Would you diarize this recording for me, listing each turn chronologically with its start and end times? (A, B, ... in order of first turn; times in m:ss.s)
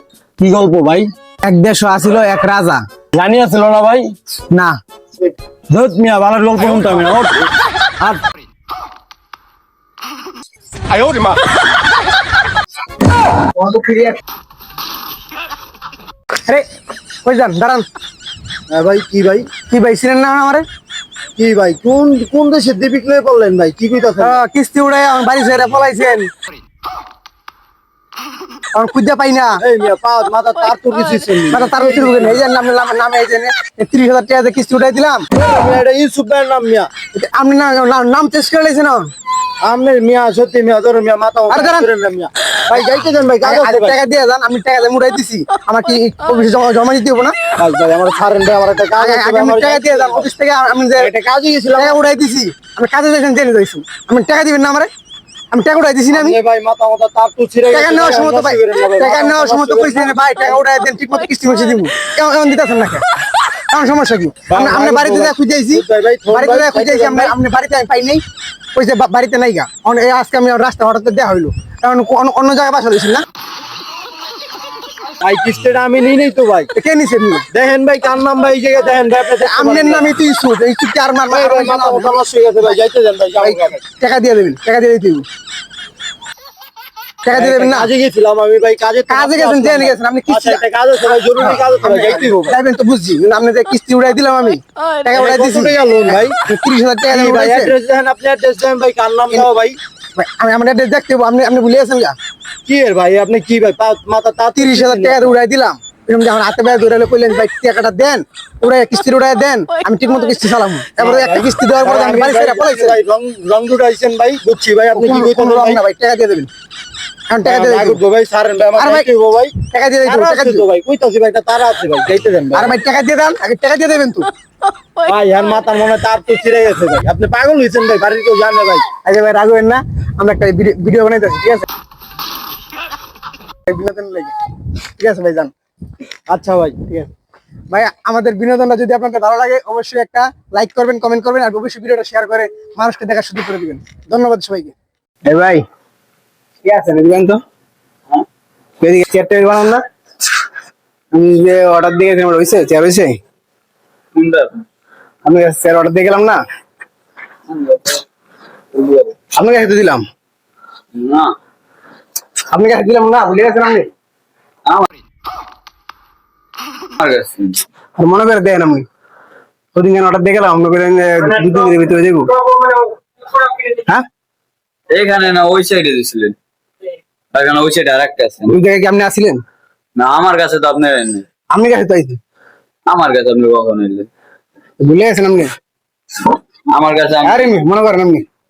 0:00.4-0:01.1 A
0:01.4-0:02.8 B
0:03.1-0:04.1 A
0:05.7-0:07.4 A
0:11.0-0:11.3 A
0:13.6-0:14.2 B
0:17.2-0:17.9 B
0:18.7-0:19.5 A
0:19.7-0:20.6 B
0:21.4-0:24.4 A
0:24.2-0:26.3 B
0:28.7-0:29.6 B
0:29.6-0:32.4 A
0:31.5-0:35.2 B
0:35.3-0:36.9 A
0:37.1-0:39.1 B
0:39.6-0:44.0 A
0:41.5-0:41.9 B
0:43.4-0:47.4 B
0:47.6-0:50.3 A
0:49.0-0:51.1 B
0:51.0-0:52.0 A
0:51.7-0:54.9 B
0:55.5-0:56.4 B
0:56.1-1:00.6 A
0:57.7-1:03.0 B
1:03.7-1:08.2 B
1:04.5-1:07.3 A
1:08.7-1:13.2 B
1:15.2-1:16.7 A
1:16.7-1:17.4 B
1:17.5-1:20.1 A
1:19.4-1:22.2 B
1:21.3-1:23.8 A
1:23.4-1:25.2 B
1:27.2-1:27.9 B
1:27.3-1:32.6 A
1:29.1-1:30.6 B
1:31.4-1:37.7 B
1:35.1-1:36.4 A
1:37.1-1:39.8 A
1:40.2-1:42.1 B
1:42.6-1:45.4 A
1:44.6-1:53.0 B
1:51.0-1:55.8 A
1:54.9-1:56.5 B
1:57.3-1:58.0 B
1:57.4-2:02.7 A
1:58.8-1:59.1 B
1:59.7-2:00.6 B
2:02.5-2:04.3 B
2:05.0-2:08.8 A
2:09.0-2:11.7 B
2:13.6-2:14.3 B
2:15.0-2:15.5 B
2:16.3-2:16.8 A
2:17.7-2:24.7 B
2:25.3-2:25.6 B
2:26.7-2:27.4 B
2:28.8-2:29.8 B
2:31.1-2:33.2 B
2:34.1-2:34.5 C
2:35.2-2:36.4 B
2:37.5-2:38.0 C
2:38.7-2:39.1 C
2:39.3-2:40.0 B
2:40.9-2:41.3 C
2:42.5-2:43.9 B
2:47.0-2:47.6 C
2:48.0-2:48.8 B
2:49.7-2:52.3 B
2:53.6-2:54.0 B
2:54.9-2:56.3 C
2:57.3-2:58.6 C
2:58.5-2:59.4 B
3:00.0-3:01.2 C
3:01.5-3:02.2 B
3:02.9-3:04.1 C
3:04.8-3:05.5 B
3:06.7-3:07.5 C
3:07.2-3:08.2 B